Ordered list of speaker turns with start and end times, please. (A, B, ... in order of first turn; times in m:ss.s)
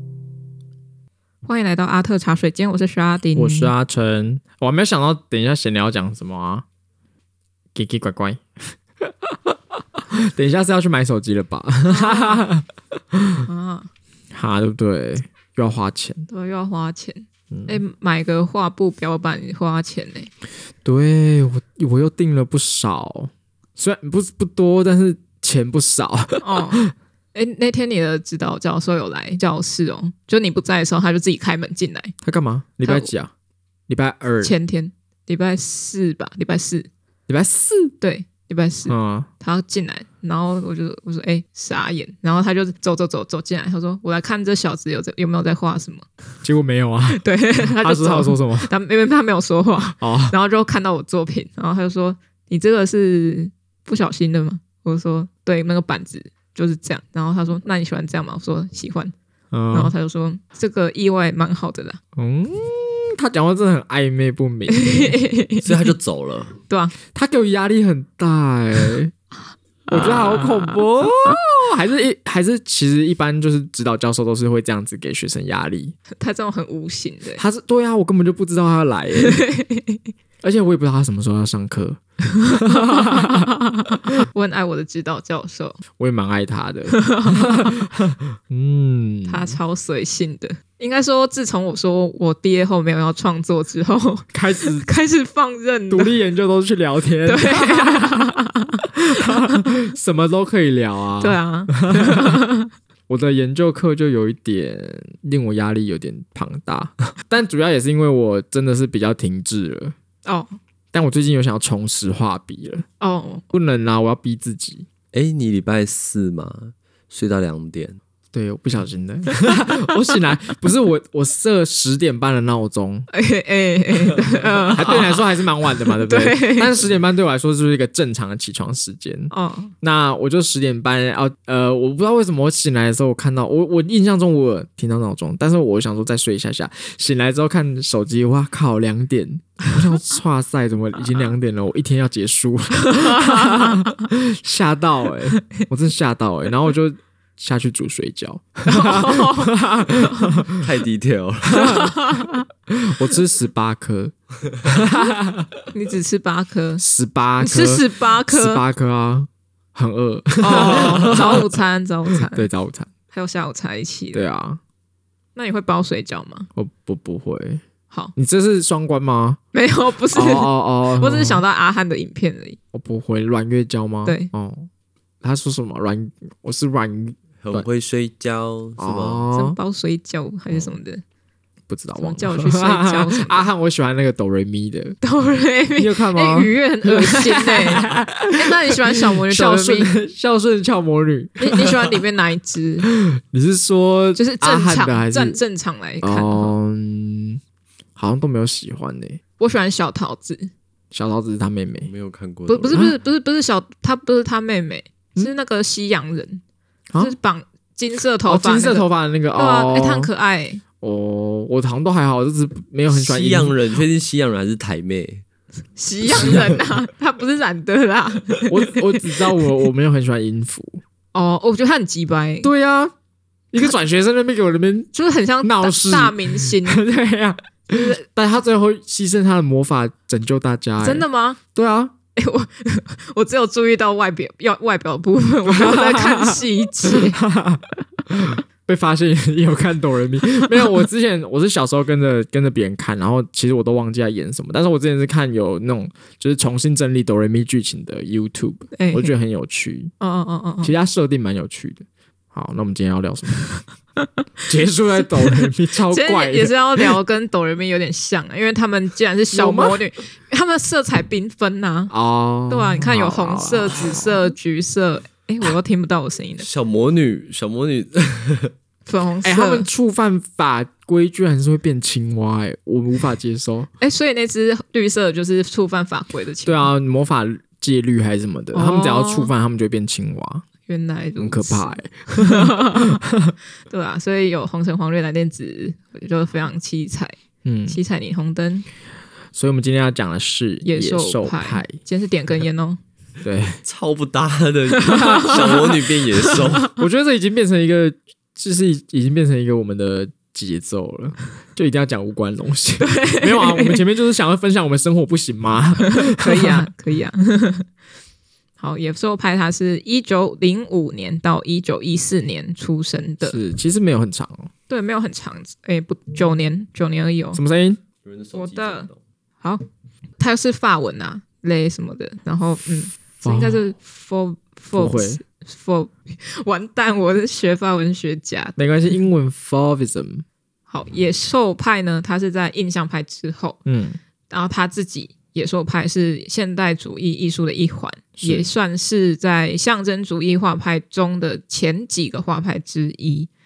0:01.4-0:03.7 A
0:03.3-0:06.6 B
0:07.7-0:13.4 B
0:11.8-0:12.5 A
0:13.4-0:13.9 A
0:14.3-0:16.3 B
0:16.3-0:20.3 A
0:17.5-0:17.8 B
0:20.8-0:26.9 B
0:26.4-0:26.8 A
0:27.3-0:32.1 A
0:32.2-0:33.3 B
0:32.8-0:33.1 A
0:33.9-0:34.5 B
0:34.4-0:36.9 A
0:37.3-0:37.9 B
0:38.0-0:46.0 A
0:38.9-0:39.3 B
0:46.4-0:48.7 B
0:47.1-0:59.1 A
0:50.0-0:50.3 B
0:59.5-0:59.9 B
0:59.7-1:02.0 A
1:02.2-1:05.2 B
1:04.7-1:05.8 A
1:05.6-1:06.6 C
1:06.7-1:06.9 A
1:07.1-1:09.1 B
1:09.9-1:10.8 A
1:09.9-1:16.0 B
1:16.1-1:17.4 A
1:17.4-1:19.4 B
1:19.2-1:20.0 A
1:20.4-1:24.2 B
1:22.5-1:25.8 A
1:26.0-1:29.6 B
1:26.9-1:27.8 A
1:29.3-1:36.1 A
1:34.3-1:34.9 B
1:35.9-1:38.4 B
1:37.2-1:39.6 A
1:39.0-1:42.4 B
1:41.2-1:42.7 A
1:43.1-1:49.9 B
1:50.2-1:50.6 A
1:50.9-1:52.8 B
1:53.0-1:53.4 A
1:53.5-1:54.9 B
1:55.1-1:58.0 C
1:58.3-2:03.1 B
1:59.4-1:59.7 A
2:03.1-2:06.8 A
2:04.7-2:30.6 B
2:09.3-2:09.7 A
2:22.9-2:24.0 A
2:28.6-2:30.4 A
2:30.5-2:31.8 C
2:31.5-2:32.2 B
2:31.5-2:32.4 A
2:32.7-2:35.5 B
2:34.9-2:35.1 A
2:35.7-2:36.8 A
2:36.8-2:41.6 B
2:37.4-2:38.6 A
2:40.4-2:42.5 A
2:40.7-2:41.2 C
2:42.2-2:42.9 B
2:43.1-2:44.3 A
2:44.1-2:44.6 B
2:45.3-2:46.5 A
2:46.5-2:47.6 B
2:48.2-2:49.4 B
2:49.5-2:52.6 A
2:50.1-2:51.4 B
2:52.7-2:54.7 B
2:55.2-2:57.6 B
2:57.4-2:59.2 C
2:58.8-2:59.6 B
2:59.3-3:01.0 A
3:01.7-3:05.0 B
3:02.0-3:03.5 A
3:05.0-3:09.9 A
3:05.8-3:11.9 B
3:11.4-3:12.9 A
3:12.8-3:15.4 B
3:14.1-3:16.5 A
3:16.0-3:17.4 B
3:18.0-3:19.2 B
3:19.4-3:20.5 A
3:20.9-3:21.9 B
3:21.8-3:22.8 C
3:22.5-3:26.4 A
3:22.7-3:22.9 B
3:27.0-3:30.6 A
3:28.2-3:30.1 B
3:30.8-3:33.5 B
3:32.9-3:35.2 C
3:35.8-3:39.1 A
3:38.5-3:40.8 B
3:41.1-3:42.5 A
3:42.4-3:42.9 B
3:43.5-3:44.9 B
3:44.9-3:46.8 A
3:45.4-3:51.9 B
3:47.7-3:48.0 A
3:50.8-3:51.4 A
3:52.2-3:57.2 A
3:55.5-4:09.9 B
4:08.7-4:09.1 A
4:10.0-4:10.7 A
4:10.6-4:13.4 B
4:14.5-4:16.9 B
4:15.2-4:21.9 A
4:19.3-4:19.8 B
4:21.9-4:24.3 B
4:22.5-4:26.4 A
4:26.4-4:28.5 C
4:28.8-4:29.7 A
4:29.2-4:33.7 B
4:33.8-4:36.7 A
4:36.4-4:40.4 B
4:38.5-4:39.3 A
4:40.6-4:43.0 A
4:41.2-4:43.3 B
4:43.7-4:47.1 A
4:47.4-4:47.8 B
4:47.7-4:48.6 A
4:49.3-4:51.8 B
4:50.6-4:52.8 A
4:53.2-4:53.6 B
4:53.6-4:56.7 C
4:54.7-4:56.4 A
4:54.9-4:55.7 B
4:56.7-5:06.7 B
5:02.8-5:03.8 A
5:05.8-5:07.7 A
5:08.6-5:13.4 A
5:13.2-5:14.5 B
5:14.7-5:17.4 A
5:17.3-5:17.8 B
5:18.0-5:19.0 C
5:18.3-5:18.9 A
5:20.2-5:28.6 A
5:23.2-5:23.6 B
5:24.7-5:25.2 B
5:28.6-5:30.2 B
5:30.7-5:33.6 A
5:33.6-5:34.0 B
5:34.3-5:43.3 A
5:38.2-5:38.5 B